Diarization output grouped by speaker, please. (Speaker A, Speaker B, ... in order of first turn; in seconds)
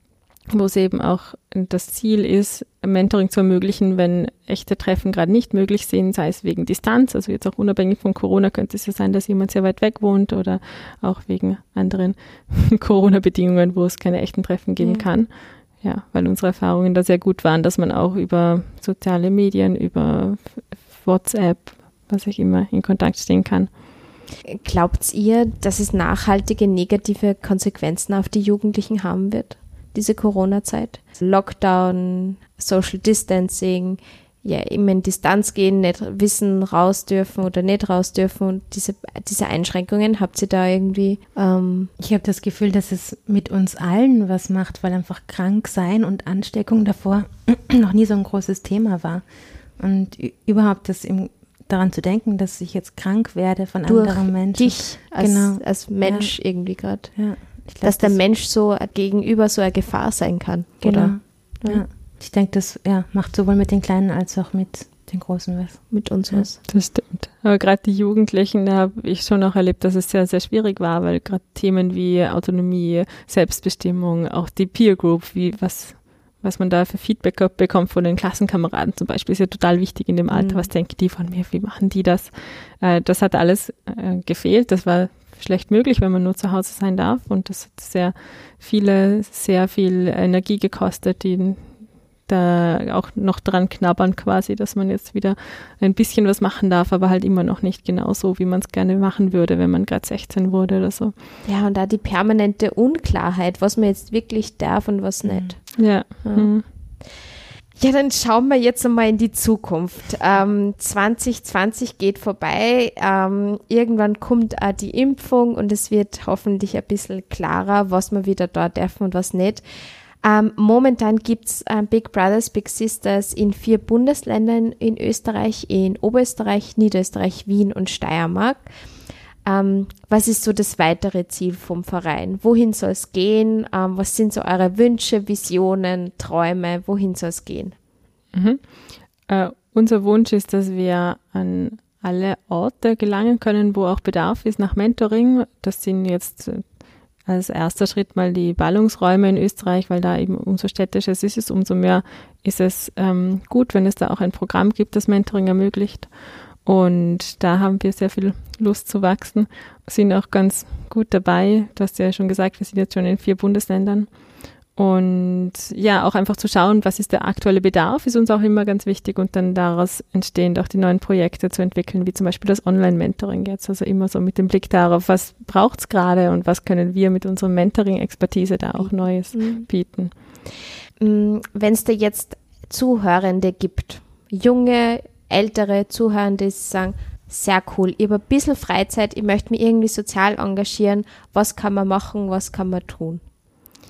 Speaker A: 0.4-23.7, 66.7-101.1, 105.8-106.7, 138.3-180.1
Speaker B: 14.8-15.1, 24.4-41.9, 53.9-61.9, 65.9-66.6, 80.3-80.7, 101.5-107.2, 107.8-119.6, 120.2-128.7, 129.4-137.8, 178.8-180.2, 181.0-193.2
Speaker C: 42.0-56.4, 57.1-58.2, 60.8-66.5, 105.2-105.5